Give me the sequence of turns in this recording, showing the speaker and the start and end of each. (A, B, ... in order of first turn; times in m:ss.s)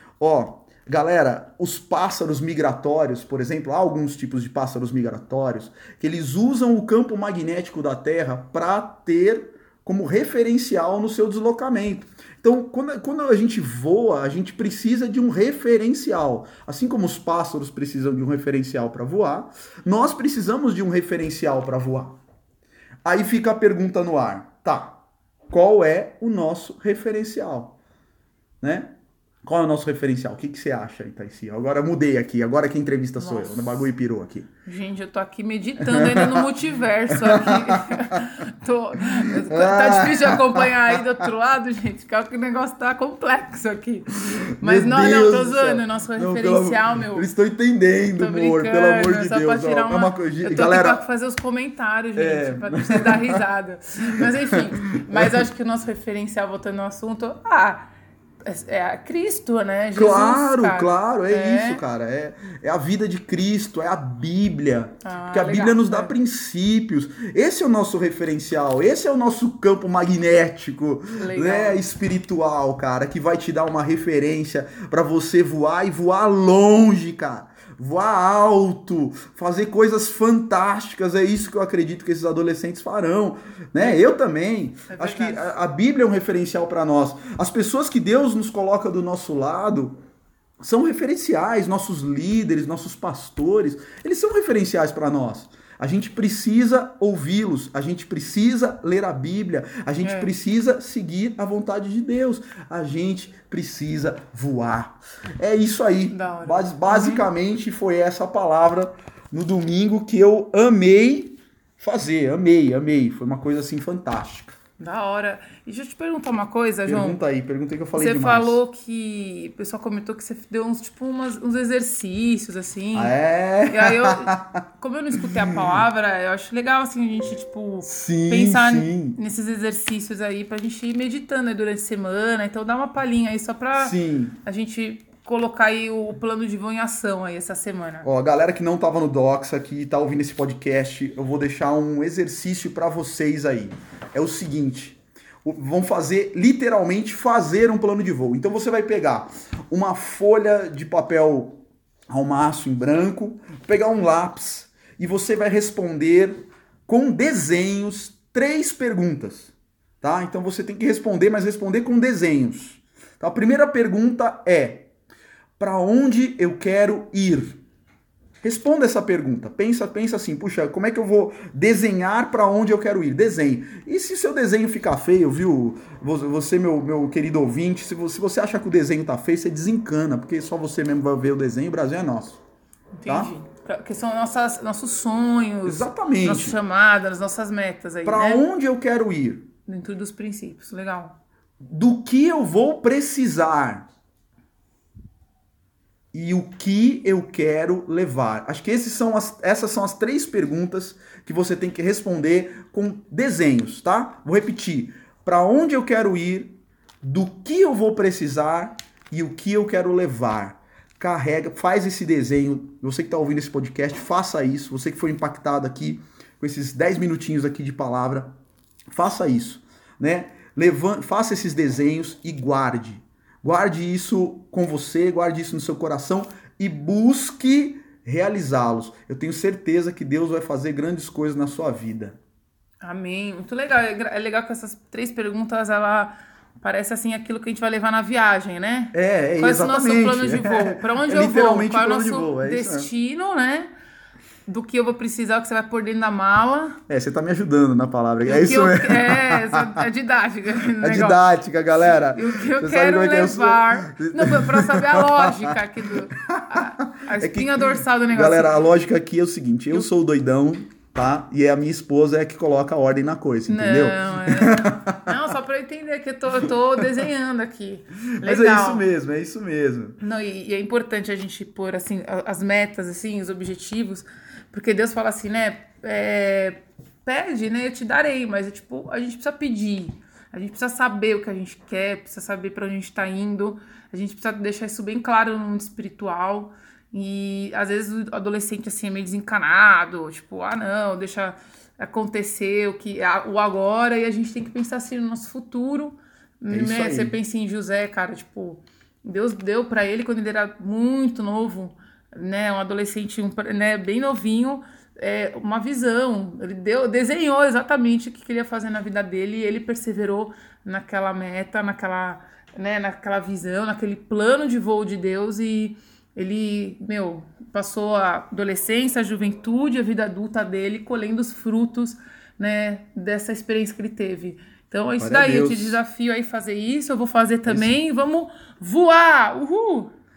0:00.2-0:22.2 A
0:23.0-0:27.8 A
0:28.6-0:34.5 A
0:33.2-0:33.7 B
0:34.6-0:47.3 B
0:35.8-0:36.5 A
0:37.1-0:38.2 A
0:39.4-0:41.0 A
0:44.5-0:51.0 A
0:48.1-0:57.9 B
0:52.2-0:53.4 A
0:54.2-0:55.3 A
0:58.4-1:01.8 B
0:59.9-1:30.0 A
1:05.0-1:06.1 B
1:11.2-1:11.8 B
1:23.8-1:24.1 B
1:24.9-1:25.6 B
1:30.6-1:54.6 A
1:40.0-1:40.3 B
1:46.1-1:47.3 B
1:54.8-1:57.2 B
1:56.8-1:58.6 A
1:57.9-2:18.1 B
2:02.9-2:04.6 A
2:07.8-2:09.2 A
2:13.8-2:14.4 A
2:18.0-2:44.9 A
2:45.6-2:47.6 A
2:48.4-3:02.4 A
3:02.9-3:08.4 B
3:03.0-3:03.3 A
3:05.6-3:06.6 A
3:08.0-3:09.5 A
3:09.6-3:11.1 B
3:11.6-3:13.9 A
3:16.1-3:38.3 A
3:38.9-3:52.2 A
3:52.8-4:03.7 B
3:58.9-4:02.9 A
4:04.5-4:06.8 B
4:06.9-4:09.8 A
4:08.2-4:18.7 B
4:10.8-4:25.2 A
4:23.5-4:28.9 B
4:28.2-4:30.0 A
4:30.0-5:29.9 B
4:56.5-4:57.2 A
5:25.0-5:25.8 A
5:27.5-5:27.8 A